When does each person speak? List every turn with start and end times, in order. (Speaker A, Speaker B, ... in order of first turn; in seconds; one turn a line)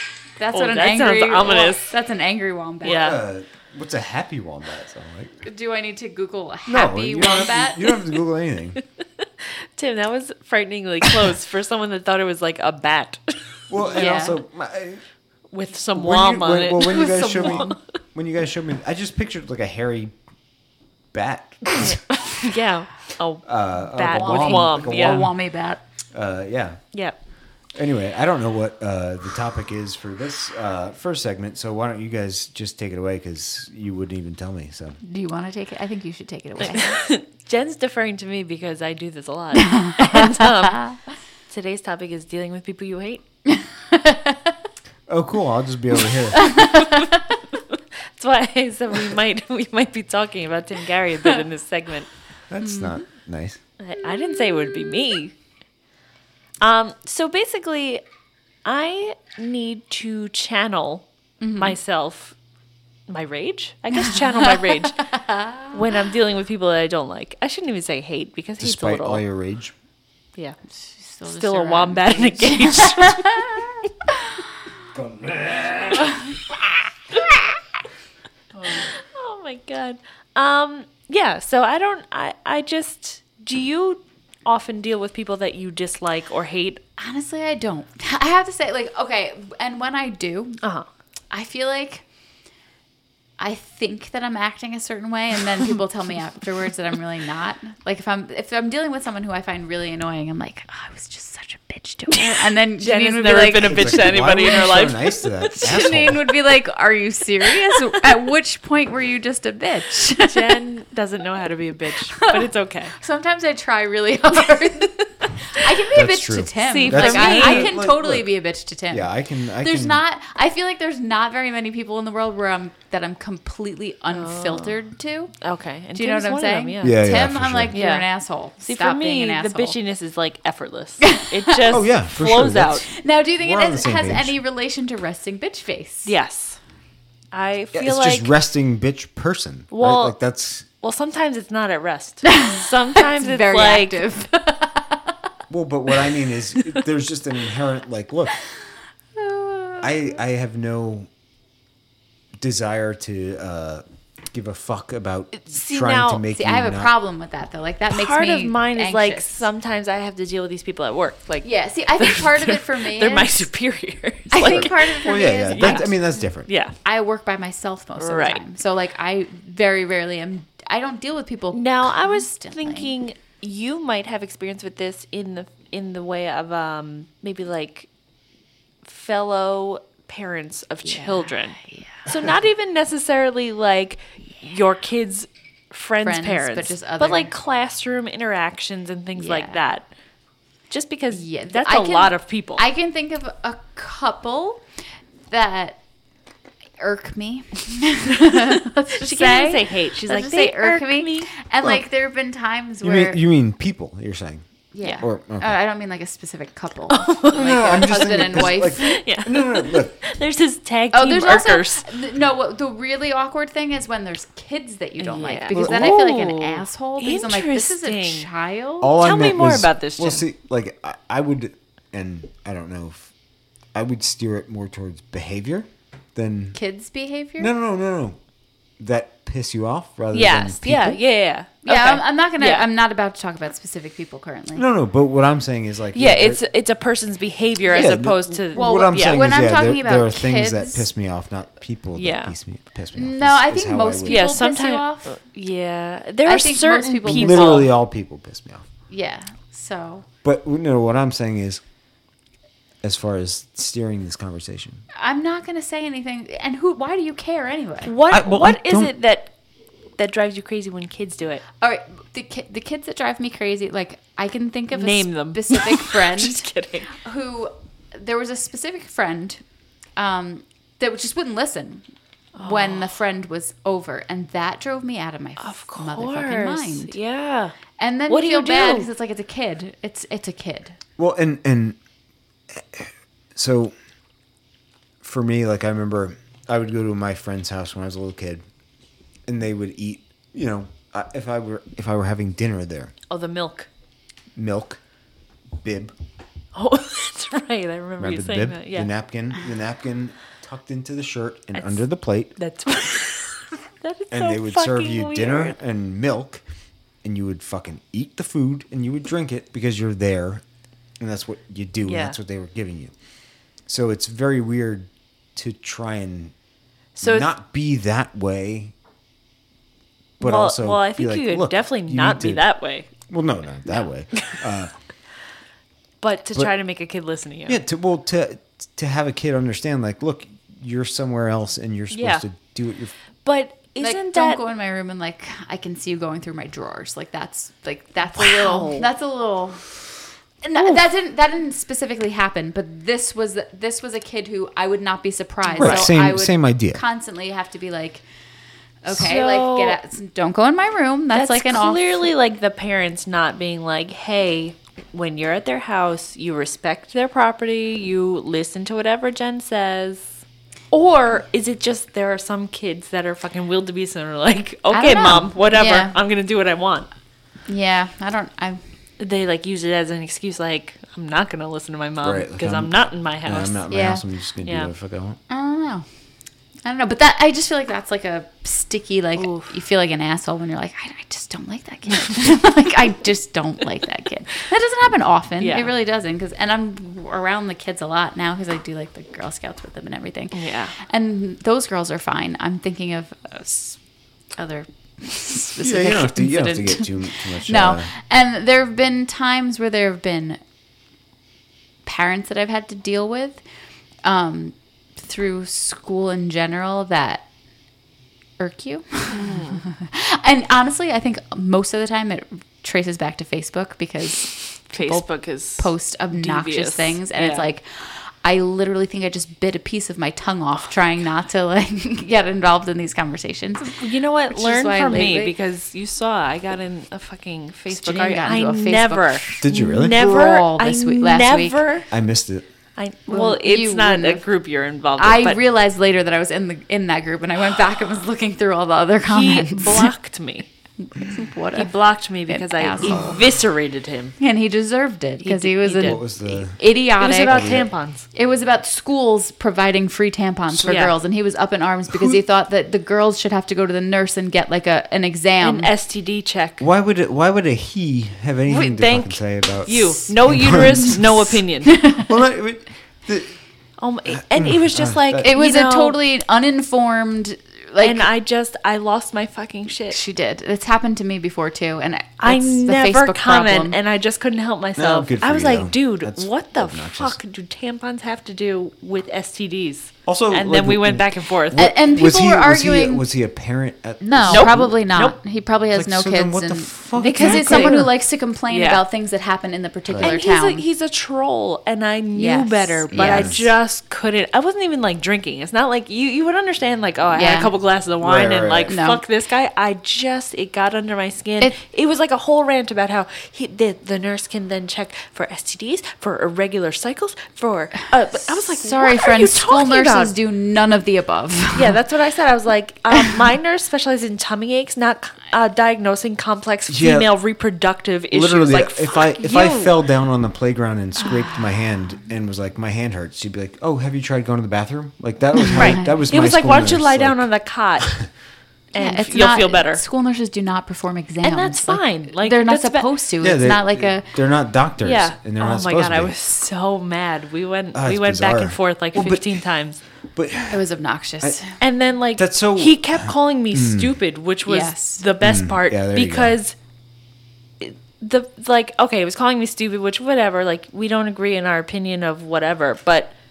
Speaker A: 0.4-3.1
Speaker B: 0.5-1.9
Speaker B: 2.8-3.2
Speaker C: 2.9-5.4
Speaker A: 5.4-8.0
Speaker C: 6.7-8.8
Speaker B: 9.8-13.3
Speaker C: 13.7-15.0
Speaker A: 13.8-14.4
Speaker B: 15.5-17.8
Speaker C: 15.9-20.1
Speaker C: 21.1-22.0
Speaker B: 21.8-25.3
Speaker C: 23.4-25.3
Speaker A: 24.1-25.8
Speaker C: 26.1-26.8
Speaker C: 27.7-35.0
Speaker A: 35.0-37.0
Speaker B: 36.6-40.9
Speaker A: 39.7-41.0
Speaker B: 41.5-43.2
Speaker A: 43.9-44.5
Speaker C: 45.1-46.6
Speaker A: 46.3-47.2
Speaker B: 46.6-47.1
Speaker B: 48.1-52.1
Speaker C: 52.5-53.6
Speaker B: 53.8-55.3
Speaker B: 56.6-58.0
Speaker B: 58.6-62.3
Speaker A: 61.4-61.8
Speaker B: 63.1-69.2
Speaker A: 65.1-65.8
Speaker C: 68.6-69.7
Speaker A: 70.8-74.4
Speaker B: 71.3-73.6
Speaker C: 74.9-76.2
Speaker B: 78.7-86.8
Speaker A: 87.0-90.6
Speaker A: 91.3-92.0
Speaker A: 93.4-104.7
Speaker B: 102.1-105.9
Speaker C: 103.6-106.3
Speaker A: 105.5-110.6
Speaker B: 110.2-113.0
Speaker A: 112.2-125.3
Speaker C: 115.9-118.3
Speaker B: 116.6-117.7
Speaker C: 118.9-120.0
Speaker B: 124.1-124.8
Speaker B: 125.4-127.0
Speaker A: 125.9-129.8
Speaker C: 126.8-127.7
Speaker B: 127.7-128.1
Speaker B: 128.6-132.9
Speaker A: 131.0-131.7
Speaker C: 131.7-134.4
Speaker A: 132.9-136.1
Speaker B: 136.1-136.6
Speaker B: 137.3-138.3
Speaker C: 137.7-140.6
Speaker B: 139.7-140.2
Speaker B: 140.8-144.2
Speaker A: 142.2-145.1
Speaker C: 145.5-148.4
Speaker A: 149.1-150.1
Speaker C: 149.8-151.1
Speaker C: 152.4-156.9
Speaker B: 155.3-156.2
Speaker A: 156.3-159.5
Speaker B: 157.9-166.7
Speaker A: 161.4-163.5
Speaker A: 164.3-166.0
Speaker C: 165.0-166.5
Speaker A: 166.8-172.9
Speaker B: 168.0-168.4
Speaker B: 171.5-177.9
Speaker B: 178.8-189.9
Speaker A: 180.9-181.8
Speaker A: 186.0-187.3
Speaker A: 189.2-189.6
Speaker B: 190.7-192.6
Speaker A: 191.1-194.6
Speaker A: 195.3-195.8
Speaker A: 196.8-203.2
Speaker B: 198.2-201.3
Speaker C: 202.8-204.4
Speaker A: 204.7-209.0
Speaker C: 205.0-205.6
Speaker B: 206.9-211.9
Speaker C: 207.3-210.0
Speaker A: 210.9-218.9
Speaker B: 215.0-218.3
Speaker C: 215.5-216.0
Speaker C: 218.8-223.1
Speaker B: 218.9-220.2
Speaker C: 223.7-226.6
Speaker A: 226.5-227.5
Speaker C: 227.4-228.2
Speaker C: 228.8-231.0
Speaker B: 230.1-232.7
Speaker A: 231.6-234.6
Speaker C: 234.5-236.4
Speaker B: 235.9-239.2
Speaker C: 237.7-244.3
Speaker A: 238.5-240.9
Speaker B: 242.0-242.3
Speaker A: 242.9-245.2
Speaker B: 244.0-247.7
Speaker A: 246.2-247.7
Speaker C: 247.0-248.6
Speaker A: 248.9-250.1
Speaker C: 250.2-251.6
Speaker C: 252.8-254.8
Speaker A: 254.9-257.9
Speaker B: 257.8-259.3
Speaker C: 258.1-258.9
Speaker B: 260.0-261.4
Speaker A: 261.6-269.4
Speaker B: 264.7-266.9
Speaker A: 270.0-271.8
Speaker B: 272.4-272.9
Speaker A: 272.4-276.9
Speaker B: 275.4-277.5
Speaker A: 277.8-280.8
Speaker B: 278.1-278.9
Speaker C: 281.0-281.8
Speaker C: 282.6-283.7
Speaker C: 285.0-288.4
Speaker C: 289.3-292.9
Speaker B: 293.1-293.7
Speaker C: 294.3-294.8
Speaker C: 295.6-295.9
Speaker B: 296.5-298.9
Speaker C: 298.0-302.3
Speaker B: 301.5-301.8
Speaker B: 302.4-305.6
Speaker C: 304.1-306.4
Speaker C: 307.0-310.4
Speaker C: 311.0-312.9
Speaker B: 311.9-312.2
Speaker C: 313.7-316.3
Speaker B: 316.9-317.3
Speaker C: 317.0-318.7
Speaker C: 320.2-322.4
Speaker B: 320.2-322.9
Speaker C: 323.1-324.7
Speaker B: 326.0-327.6
Speaker C: 327.5-332.9
Speaker B: 331.9-332.2
Speaker B: 333.2-334.4
Speaker A: 333.8-339.6
Speaker B: 338.1-338.9
Speaker A: 340.4-348.0
Speaker B: 345.5-345.9
Speaker C: 345.6-346.8
Speaker A: 348.8-352.1
Speaker B: 348.9-349.8
Speaker B: 351.1-360.2
Speaker B: 360.7-366.9
Speaker A: 364.7-365.9
Speaker A: 367.5-368.6
Speaker B: 369.0-373.7
Speaker C: 372.0-375.2
Speaker A: 373.7-374.0
Speaker A: 375.3-375.9
Speaker A: 376.6-393.8
Speaker B: 379.2-379.5
Speaker B: 385.4-385.7
Speaker B: 390.3-390.7
Speaker A: 394.3-400.4
Speaker C: 395.6-397.9
Speaker A: 401.8-403.4
Speaker A: 404.0-407.3
Speaker A: 408.4-423.8
Speaker B: 409.1-409.6
Speaker B: 414.7-417.5
Speaker B: 423.6-431.9
Speaker A: 424.3-425.3
Speaker A: 427.7-431.6
Speaker C: 429.4-430.1
Speaker C: 431.9-432.4
Speaker B: 432.8-435.4
Speaker A: 433.1-434.2
Speaker A: 435.0-439.9
Speaker B: 439.1-440.5
Speaker A: 440.8-441.7
Speaker B: 441.5-444.1
Speaker A: 442.3-443.2
Speaker A: 444.2-447.6
Speaker B: 445.2-446.0
Speaker C: 445.8-446.6
Speaker B: 447.0-448.0
Speaker C: 447.2-447.7
Speaker A: 448.1-455.7
Speaker B: 450.6-450.9
Speaker C: 451.9-452.2
Speaker B: 455.4-456.6
Speaker C: 456.6-461.0
Speaker B: 458.5-461.8
Speaker C: 461.9-463.4
Speaker B: 463.8-466.0
Speaker C: 464.1-465.3
Speaker A: 465.2-468.1
Speaker B: 467.8-470.0
Speaker A: 469.9-473.8
Speaker B: 472.2-481.7
Speaker C: 474.8-477.2
Speaker C: 480.1-484.8
Speaker A: 481.5-483.0
Speaker A: 484.0-490.6
Speaker B: 484.3-485.2
Speaker C: 485.7-487.9
Speaker B: 487.1-487.9
Speaker B: 488.5-488.8
Speaker C: 489.9-490.1
Speaker B: 490.0-510.1
Speaker A: 492.1-493.4
Speaker C: 492.9-493.4
Speaker A: 497.1-497.5
Speaker C: 498.0-498.8
Speaker A: 498.7-499.0
Speaker A: 508.1-511.8
Speaker B: 511.5-519.8
Speaker C: 516.7-517.1
Speaker C: 518.1-527.3
Speaker B: 525.5-528.0
Speaker B: 528.7-529.8
Speaker A: 528.7-534.1
Speaker B: 531.2-532.9
Speaker C: 533.2-536.1
Speaker B: 534.8-539.8
Speaker C: 537.7-539.4
Speaker C: 540.1-540.6
Speaker A: 540.5-541.6
Speaker B: 541.6-546.5
Speaker C: 542.1-543.9
Speaker A: 544.5-545.0
Speaker C: 545.2-546.4
Speaker B: 547.6-553.1